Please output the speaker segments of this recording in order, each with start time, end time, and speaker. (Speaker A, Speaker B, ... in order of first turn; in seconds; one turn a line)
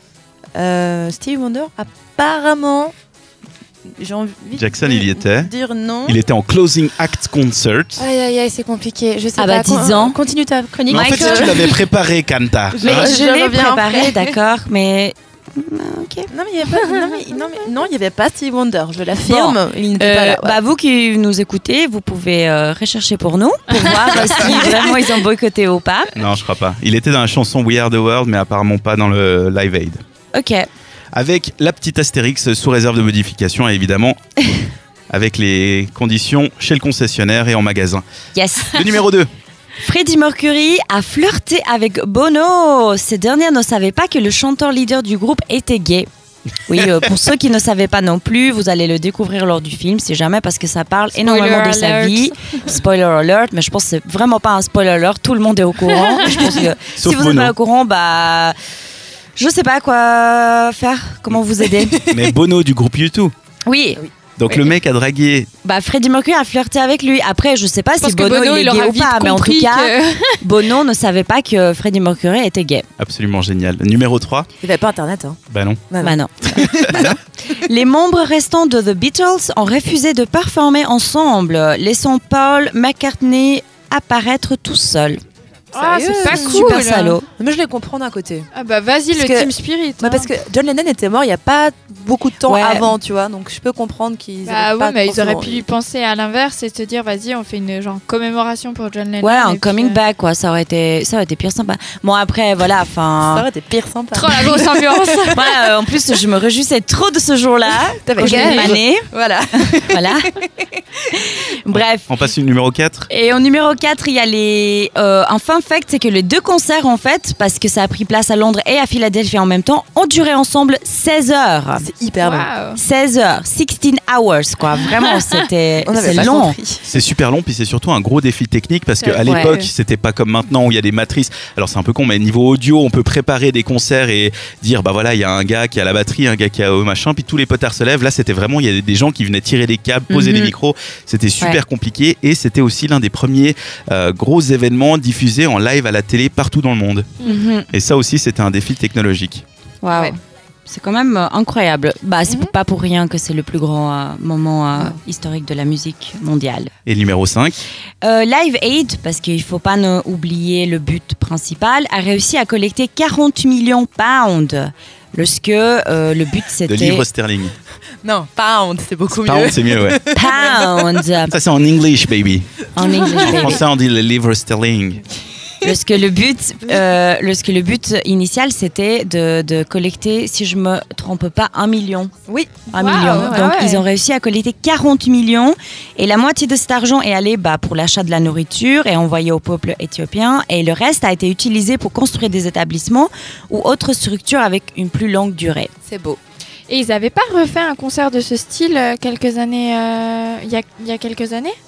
Speaker A: 0.5-2.9
Speaker A: 4.0-6.2
Speaker B: 4.6-5.5
Speaker B: 6.0-8.0
Speaker A: 8.0-11.8
Speaker C: 9.4-10.2
Speaker C: 10.9-11.7
Speaker B: 10.9-13.1
Speaker A: 12.7-14.3
Speaker C: 12.8-16.3
Speaker A: 16.3-20.6
Speaker C: 19.3-26.1
Speaker B: 26.1-30.0
Speaker C: 30.3-30.7
Speaker B: 31.1-34.2
Speaker B: 35.1-38.0
Speaker C: 38.3-39.0
Speaker B: 38.7-39.3
Speaker C: 39.8-46.1
Speaker C: 46.6-58.5
Speaker D: 51.1-52.6
Speaker B: 56.9-57.5
Speaker C: 59.4-62.1
Speaker B: 62.0-63.3
Speaker C: 63.6-64.0
Speaker B: 64.4-65.5
Speaker C: 65.6-72.9
Speaker D: 68.0-70.4
Speaker B: 73.0-74.5
Speaker A: 74.6-75.4
Speaker B: 75.5-75.8
Speaker A: 75.9-77.1
Speaker C: 76.0-85.2
Speaker B: 76.5-77.1
Speaker A: 85.7-86.8
Speaker D: 85.7-87.2
Speaker C: 86.2-87.2
Speaker A: 87.3-88.5
Speaker D: 88.5-90.3
Speaker A: 89.1-95.7
Speaker C: 92.5-92.9
Speaker D: 94.4-100.0
Speaker C: 99.2-103.5
Speaker A: 103.3-105.5
Speaker D: 104.1-105.4
Speaker C: 105.3-109.0
Speaker A: 108.0-110.7
Speaker D: 108.2-108.7
Speaker C: 109.8-110.3
Speaker C: 111.4-112.1
Speaker B: 112.1-113.1
Speaker C: 113.1-121.8
Speaker A: 121.8-122.5
Speaker D: 122.2-122.8
Speaker C: 122.8-126.6
Speaker A: 125.8-126.8
Speaker B: 126.1-126.3
Speaker B: 126.8-147.1
Speaker D: 129.0-129.7
Speaker C: 129.2-129.5
Speaker C: 140.1-140.5
Speaker C: 147.2-147.7
Speaker B: 147.7-149.4
Speaker C: 149.8-156.7
Speaker D: 149.9-150.1
Speaker B: 156.8-157.6
Speaker C: 158.0-167.0
Speaker B: 166.7-167.5
Speaker A: 168.0-170.8
Speaker B: 169.1-170.0
Speaker C: 170.1-171.3
Speaker B: 171.3-172.5
Speaker C: 172.8-173.6
Speaker A: 172.8-173.4
Speaker B: 173.1-175.0
Speaker C: 175.6-182.1
Speaker A: 182.3-183.5
Speaker D: 182.7-183.8
Speaker C: 182.7-195.7
Speaker A: 195.9-196.2
Speaker D: 196.7-201.6